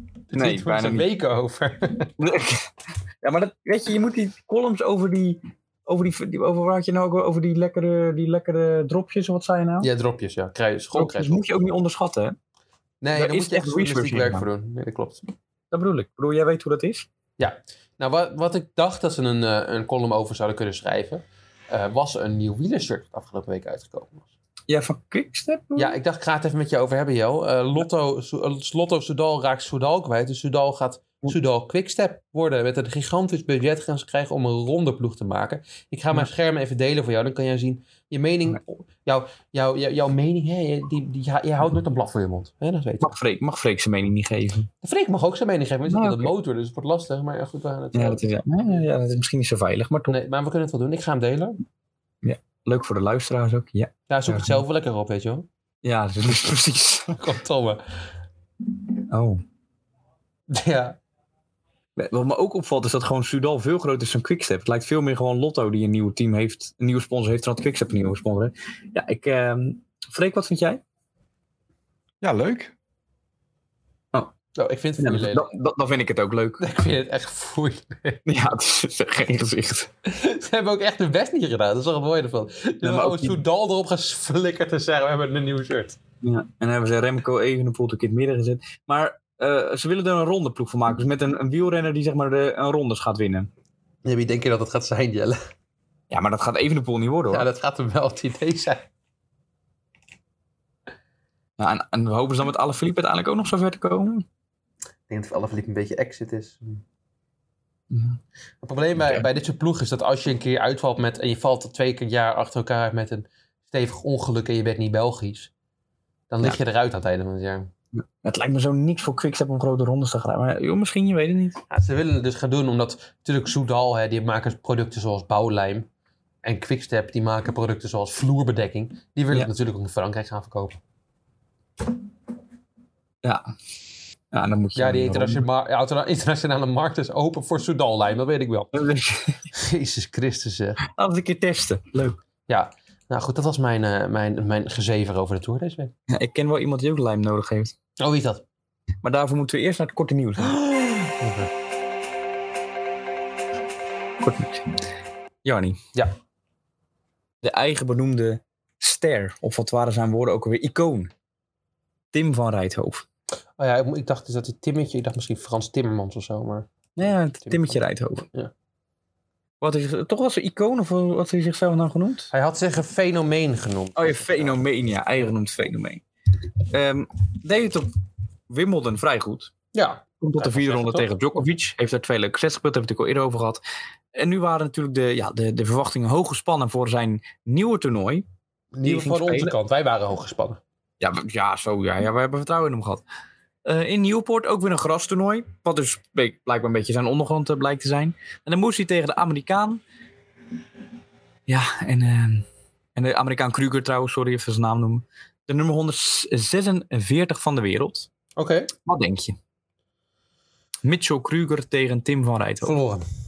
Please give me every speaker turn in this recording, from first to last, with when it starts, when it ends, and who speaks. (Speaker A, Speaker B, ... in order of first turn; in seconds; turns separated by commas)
Speaker A: 0.3-2.1, Speaker B: 0.3-1.1, Speaker B: 2.2-9.9, Speaker A: 9.8-11.4, Speaker B: 10.9-12.4, Speaker A: 13.0-15.2, Speaker B: 13.1-14.5, Speaker B: 15.7-17.1, Speaker A: 17.4-24.2, Speaker B: 24.7-26.0, Speaker A: 25.8-43.1, Speaker B: 43.0-44.7, Speaker A: 44.8-48.2, Speaker B: 45.9-46.3, Speaker B: 47.9-50.1, Speaker A: 50.1-51.6, Speaker B: 52.2-54.6, Speaker A: 54.1-55.5, Speaker B: 55.8-57.2, Speaker A: 57.2-57.8, Speaker B: 59.1-59.4, Speaker A: 60.5-61.0, Speaker B: 62.0-70.8, Speaker B: 72.2-72.7, Speaker A: 74.5-75.5, Speaker B: 75.0-76.6, Speaker A: 76.6-78.2, Speaker B: 78.2-79.9, Speaker A: 80.0-86.0, Speaker B: 82.8-83.4, Speaker B: 86.2-93.5, Speaker A: 94.0-95.4, Speaker B: 96.1-97.5, Speaker A: 97.3-98.9, Speaker B: 101.6-104.2, Speaker A: 105.1-106.8, Speaker B: 107.9-108.2, Speaker A: 108.6-115.5, Speaker B: 109.0-109.2, Speaker A: 116.3-117.7, Speaker B: 117.9-121.6, Speaker A: 121.7-125.9, Speaker A: 126.4-130.8, Speaker B: 134.3-135.4, Speaker A: 134.8-138.8, Speaker B: 138.7-139.4, Speaker A: 139.5-140.8, Speaker B: 140.8-142.2, Speaker A: 142.5-145.9, Speaker B: 146.1-147.7, Speaker A: 148.0-148.4, Speaker B: 149.0-150.6, Speaker A: 151.0-151.5, Speaker B: 154.2-154.8, Speaker B: 155.4-155.8, Speaker B: 157.4-161.1, Speaker B: 162.1-163.0, Speaker A: 163.6-166.7, Speaker B: 167.0-168.2, Speaker A: 167.4-168.5, Speaker B: 169.6-172.3, Speaker A: 172.3-174.6, Speaker B: 174.0-176.0, Speaker B: 176.7-177.9, Speaker B: 178.5-179.5, Speaker A: 179.7-181.1, Speaker B: 180.2-183.6, Speaker B: 184.1-188.2, Speaker A: 188.7-190.6, Speaker B: 188.8-189.5, Speaker B: 191.0-193.0, Speaker B: 193.7-199.8, Speaker B: 201.5-208.1, Speaker A: 208.4-208.7, Speaker B: 208.8-209.4, Speaker B: 210.8-212.8, Speaker A: 212.6-213.0